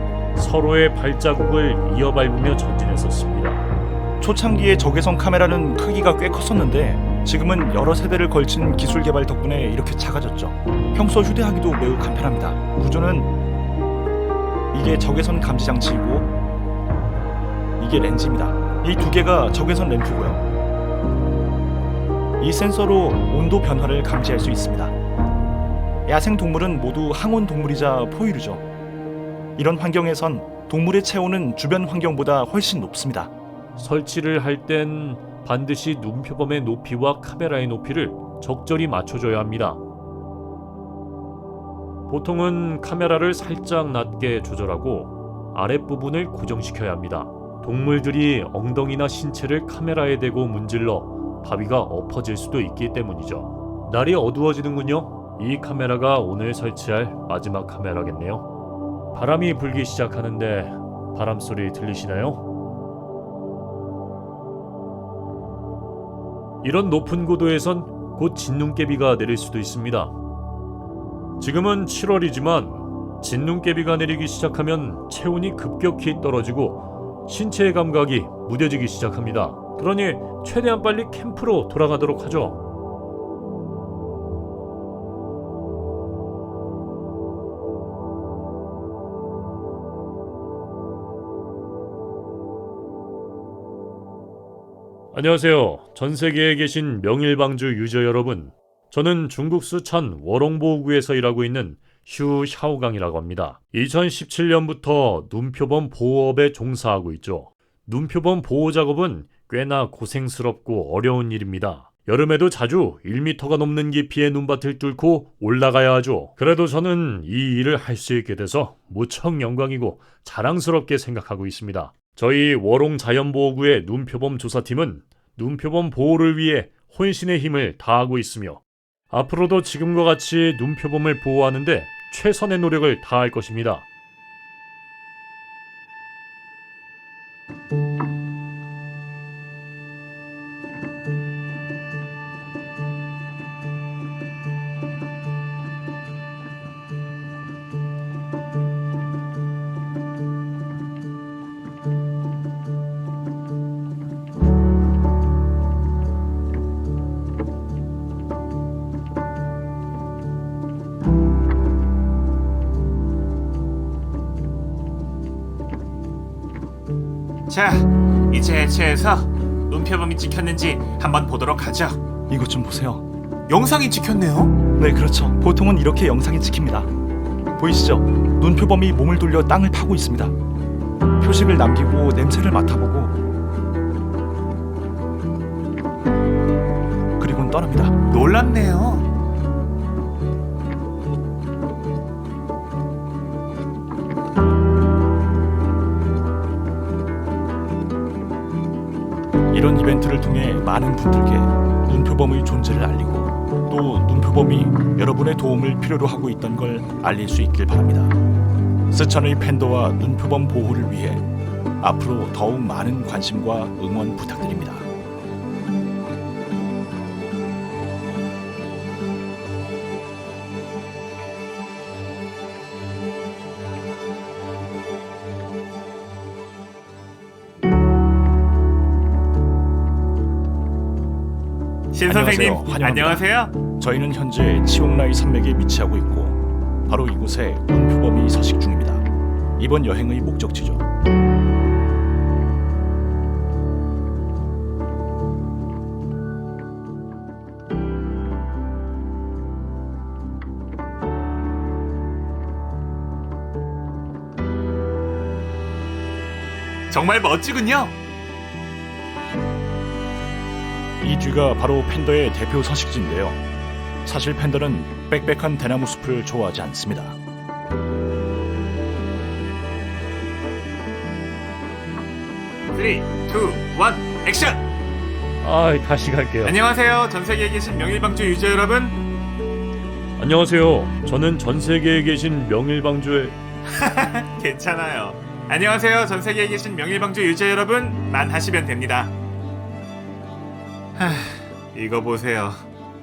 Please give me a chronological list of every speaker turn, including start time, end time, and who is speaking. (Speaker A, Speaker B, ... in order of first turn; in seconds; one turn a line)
Speaker A: 0.3-3.6
Speaker B: 4.2-13.3
Speaker B: 14.7-16.3
Speaker B: 17.8-20.4
Speaker B: 22.4-24.9
Speaker B: 26.1-28.6
Speaker B: 29.6-33.3
Speaker A: 33.8-39.8
Speaker A: 42.1-58.5
Speaker A: 59.1-62.4
Speaker A: 66.6-70.1
Speaker A: 71.4-82.6
Speaker A: 95.1-133.8
Speaker C: 167.5-172.0
Speaker B: 172.3-173.1
Speaker C: 173.5-174.6
Speaker B: 174.8-176.9
Speaker B: 177.6-180.3
Speaker B: 181.2-183.2
Speaker B: 187.2-188.0
Speaker C: 188.1-189.1
Speaker B: 199.5-208.2
Speaker B: 208.9-211.3
Speaker B: 211.8-214.9
Speaker C: 231.9-233.5
Speaker B: 232.1-239.1
Speaker B: 239.6-240.8
Speaker C: 256.9-257.9
Speaker B: 261.0-263.4
Speaker B: 264.0-267.2
Speaker C: 272.7-274.6
Speaker A: 275.4-276.6
Speaker C: 276.4-279.0
Speaker A: 280.2-283.4
Speaker C: 283.7-289.1
Speaker C: 291.0-292.7